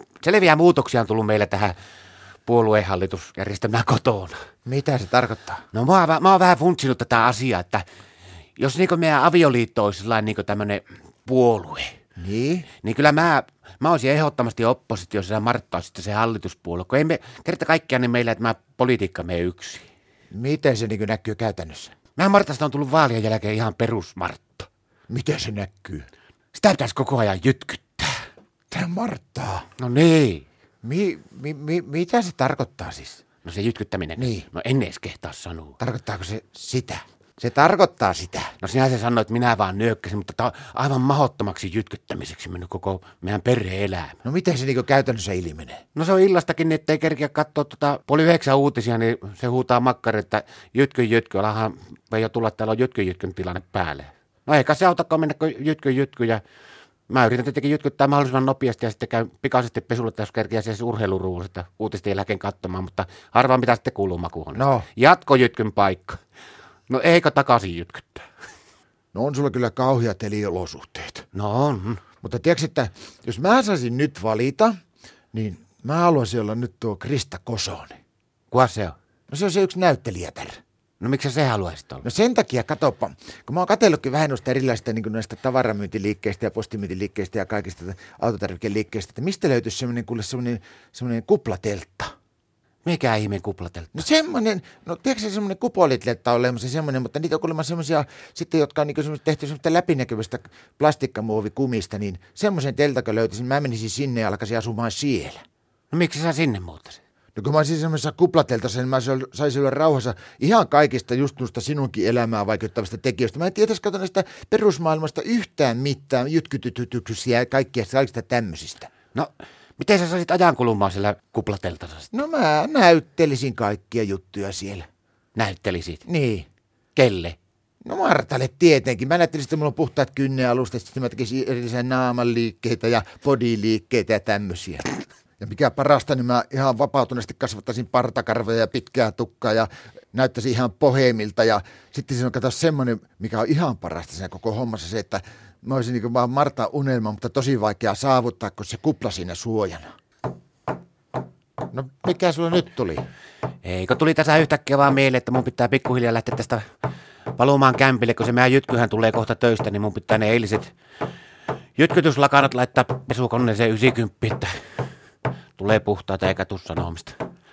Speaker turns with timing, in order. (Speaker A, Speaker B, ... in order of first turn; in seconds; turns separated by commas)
Speaker A: 0.2-1.8, Speaker A: 2.5-4.3, Speaker B: 4.7-5.6, Speaker A: 5.7-7.9, Speaker A: 8.6-11.9, Speaker B: 12.2-12.7, Speaker A: 12.8-19.9, Speaker B: 20.3-21.9, Speaker A: 22.2-24.7, Speaker B: 25.1-26.1, Speaker A: 26.5-28.2, Speaker B: 28.7-29.7, Speaker A: 29.8-30.4, Speaker B: 30.8-33.2, Speaker A: 33.4-35.8, Speaker B: 34.2-34.5, Speaker B: 35.8-38.5, Speaker A: 38.6-44.2, Speaker B: 44.2-45.8, Speaker A: 46.0-56.4, Speaker A: 57.1-66.2, Speaker B: 64.5-64.9, Speaker A: 66.9-68.3, Speaker B: 69.1-71.3, Speaker A: 71.3-72.0, Speaker B: 72.2-74.8, Speaker B: 75.3-78.0, Speaker A: 78.5-79.0, Speaker B: 79.3-80.6, Speaker A: 81.0-82.0, Speaker B: 82.0-92.1, Speaker A: 92.8-94.0, Speaker B: 94.0-105.4, Speaker A: 105.9-107.0, Speaker B: 107.4-118.9, Speaker A: 119.1-122.1, Speaker B: 122.1-124.9, Speaker A: 125.4-126.0, Speaker B: 126.0-126.5, Speaker A: 127.0-127.4, Speaker B: 127.8-149.9, Speaker B: 151.7-153.1, Speaker A: 153.6-156.6, Speaker A: 157.3-160.7, Speaker A: 161.8-164.5, Speaker A: 165.6-167.2